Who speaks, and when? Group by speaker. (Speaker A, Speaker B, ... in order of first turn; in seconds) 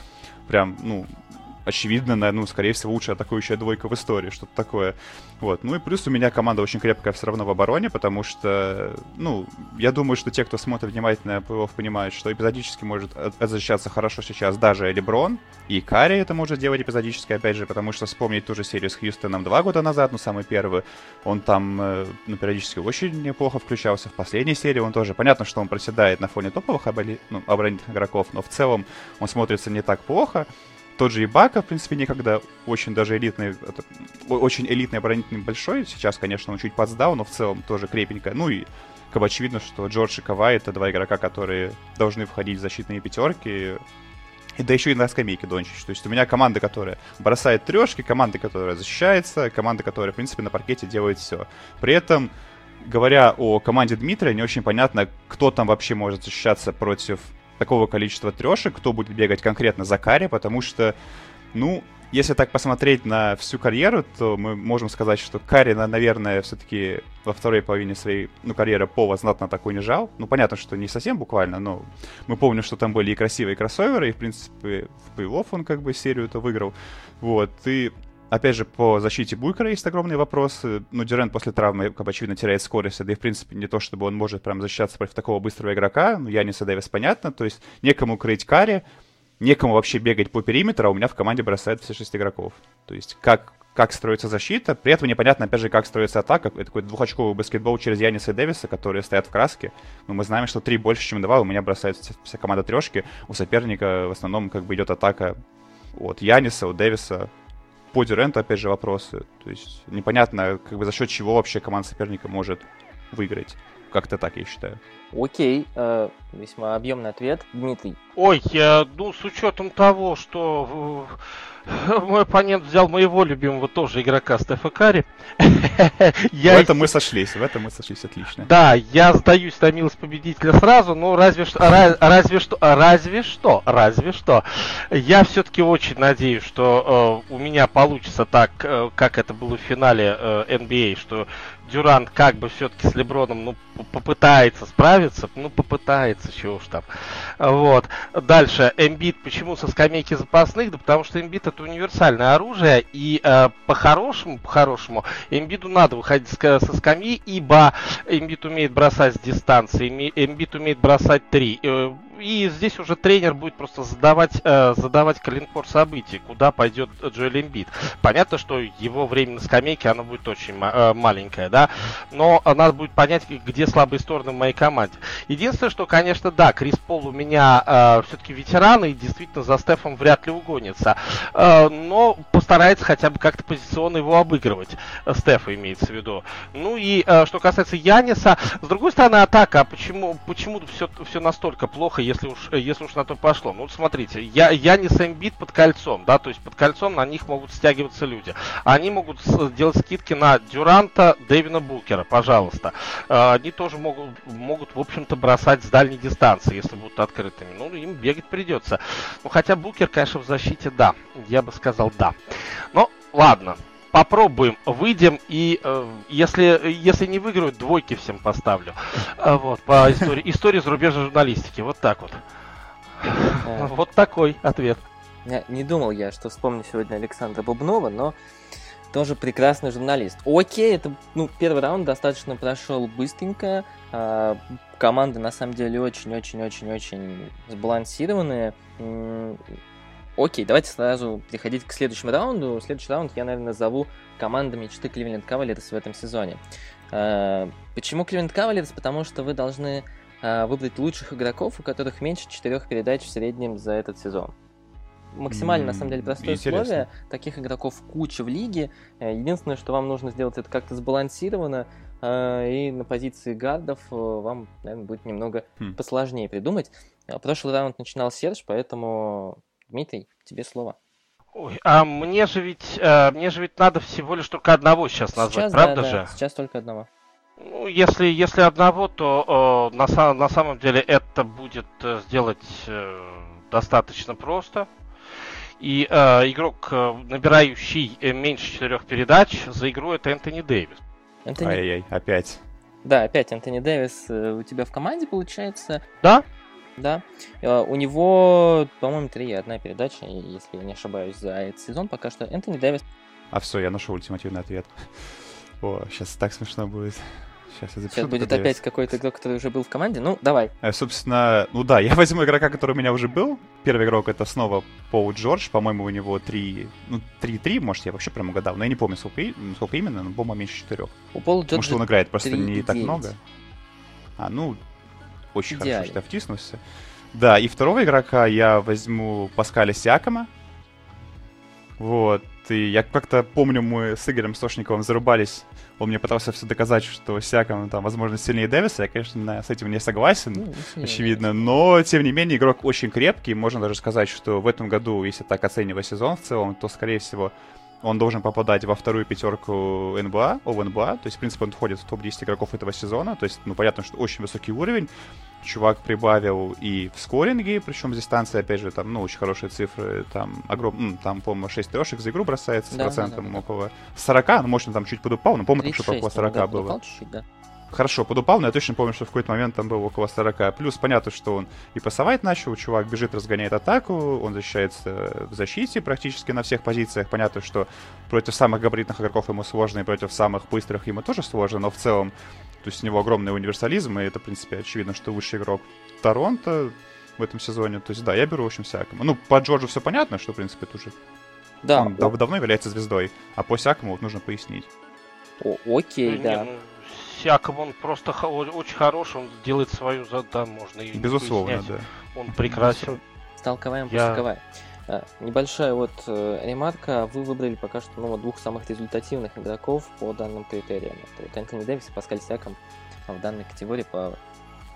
Speaker A: 0.5-43.8, 44.6-61.0, 61.5-88.8, 89.4-105.3, 105.9-107.3, 107.9-114.8, 126.4-128.5, 255.3-256.9, 291.4-292.4, 303.3-308.6, 310.6-320.9, 321.5-323.2, 324.2-324.6, 325.3-326.6, 327.1-330.3, 331.8-354.9, 355.4-366.8, 367.7-390.9, 391.7-394.7, 400.9-403.0
Speaker B: 115.1-118.0, 223.4-223.7, 225.2-228.2, 228.9-239.5, 240.2-254.3, 255.1-270.8, 275.1-276.9, 291.2-291.6, 292.8-295.8, 296.8-302.8, 307.9-310.5, 321.1-323.1, 325.5-326.0, 340.3-341.5, 362.7-363.4, 365.6-367.2, 391.6-392.1, 395.4-396.5, 403.4-414.2
Speaker C: 118.2-126.9, 128.4-146.8, 147.4-222.2, 223.0-224.8, 271.3-276.1, 277.4-284.7, 285.6-290.8, 396.0-403.0, 403.9-404.2